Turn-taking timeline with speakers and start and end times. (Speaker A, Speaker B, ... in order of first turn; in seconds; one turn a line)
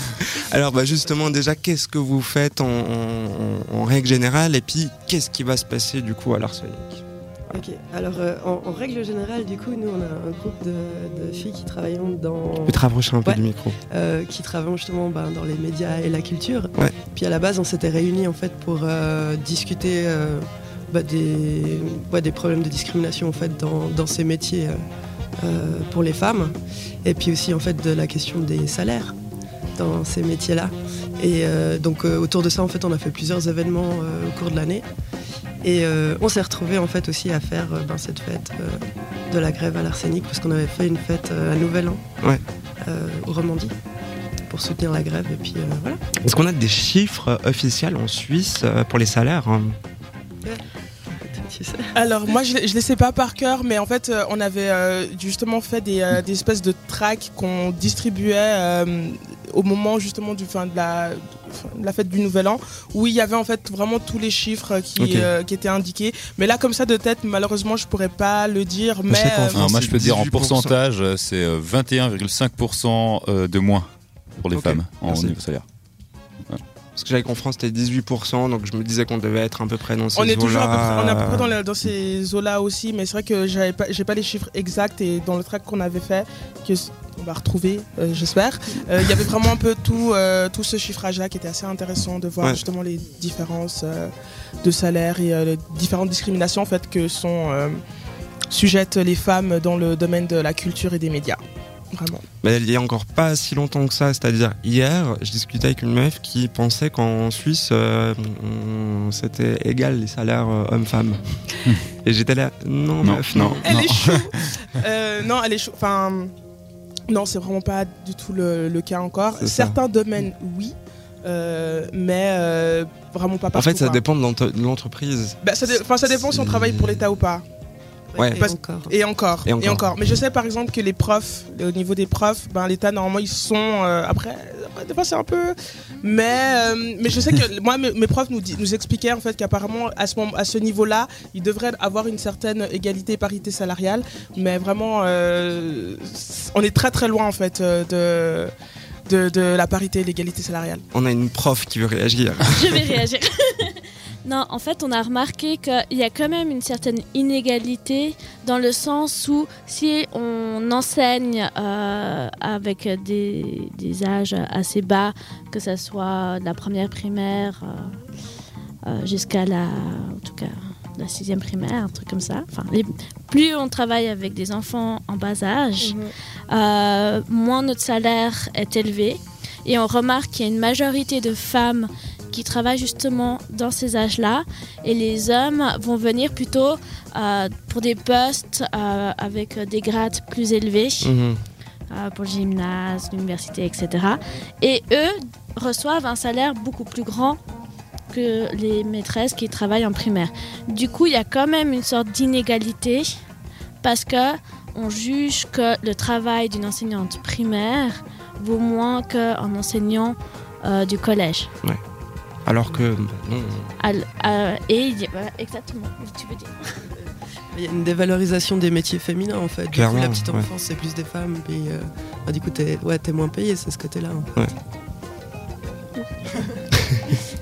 Speaker A: 0.3-7.0
Speaker B: 7.5-24.8
Speaker A: 12.7-13.8
Speaker B: 25.4-29.2
Speaker B: 29.8-34.9
Speaker B: 35.6-42.0
Speaker B: 42.8-43.8
Speaker B: 44.5-46.0
Speaker A: 46.2-49.8
Speaker B: 50.4-52.0
Speaker C: 52.0-69.8
Speaker A: 69.1-70.8
Speaker D: 69.5-75.7
Speaker A: 74.5-75.4
Speaker A: 77.0-81.5
Speaker C: 80.2-94.1
Speaker C: 94.6-97.8
Speaker C: 98.5-101.4
Speaker C: 101.9-102.2
Speaker A: 102.4-111.2
Speaker A: 112.0-113.7
Speaker D: 113.0-114.4
Speaker C: 113.6-116.3
Speaker C: 117.1-124.0
Speaker A: 119.4-119.8
Speaker A: 123.5-127.0
Speaker C: 125.4-127.4
Speaker B: 128.1-128.9
Speaker A: 128.2-128.5
Speaker C: 128.4-148.5
Speaker A: 129.4-129.8
Speaker C: 149.1-150.8
Speaker A: 150.9-152.5
Speaker E: 152.5-168.0
Speaker E: 168.9-191.1
Speaker C: 175.8-176.1
Speaker A: 191.0-191.4
Speaker E: 191.9-197.4
Speaker E: 198.1-203.1
Speaker E: 203.8-211.5
Speaker A: 212.4-213.7
Speaker E: 213.8-216.5
Speaker B: 216.9-224.3
Speaker A: 219.7-220.5